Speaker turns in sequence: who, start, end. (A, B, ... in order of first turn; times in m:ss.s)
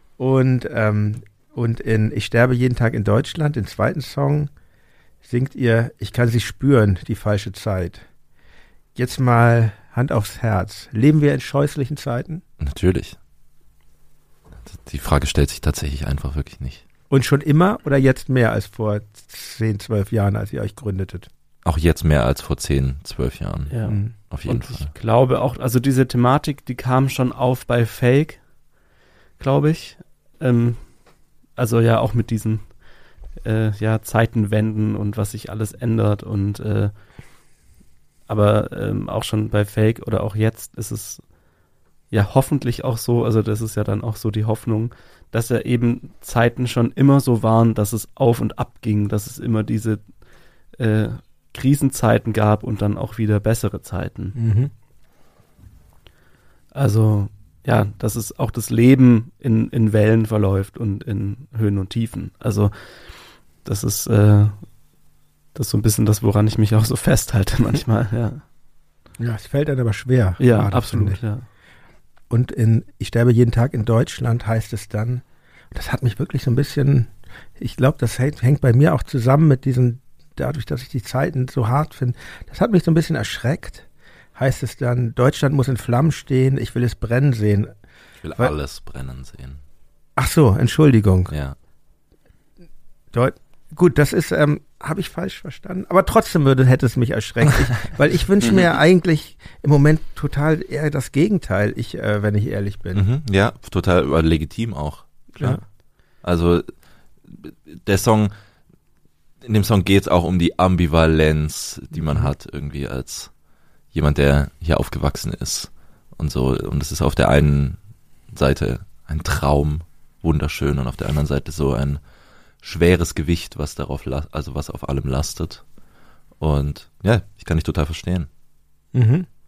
0:00.2-0:04.5 A
0:05.2-0:08.0 A
0:08.9-0:12.4 A
0:12.6-0:13.2 B
0:14.6-0:16.8 B
0:17.1-0:21.3 A
0:21.6-0:24.9 B
0:23.7-0:28.5 C
0:23.8-0:24.1 A
0:29.4-0:30.9 C
0:31.6-0:32.8 C
0:33.4-0:36.9 C
0:38.3-0:41.2 C
0:42.1-0:50.0 C
0:50.7-0:54.4 C
0:54.4-0:54.7 A
0:56.7-1:03.1 C
1:03.6-1:04.6 C
1:05.5-1:08.4 C
1:09.2-1:11.2 A
1:10.4-1:11.4 C
1:12.3-1:27.7 A
1:28.2-1:29.6 B
1:30.2-1:31.3 A
1:31.3-1:31.6 B
1:33.1-1:43.0 A
1:42.9-1:45.6 B
1:46.2-1:46.7 B
1:47.3-1:48.3 B
1:49.4-1:53.3 B
1:52.0-1:52.3 A
1:53.9-1:57.8 B
1:58.3-2:02.0 B
2:02.6-2:05.6 B
2:06.4-2:08.3 B
2:08.9-2:09.3 A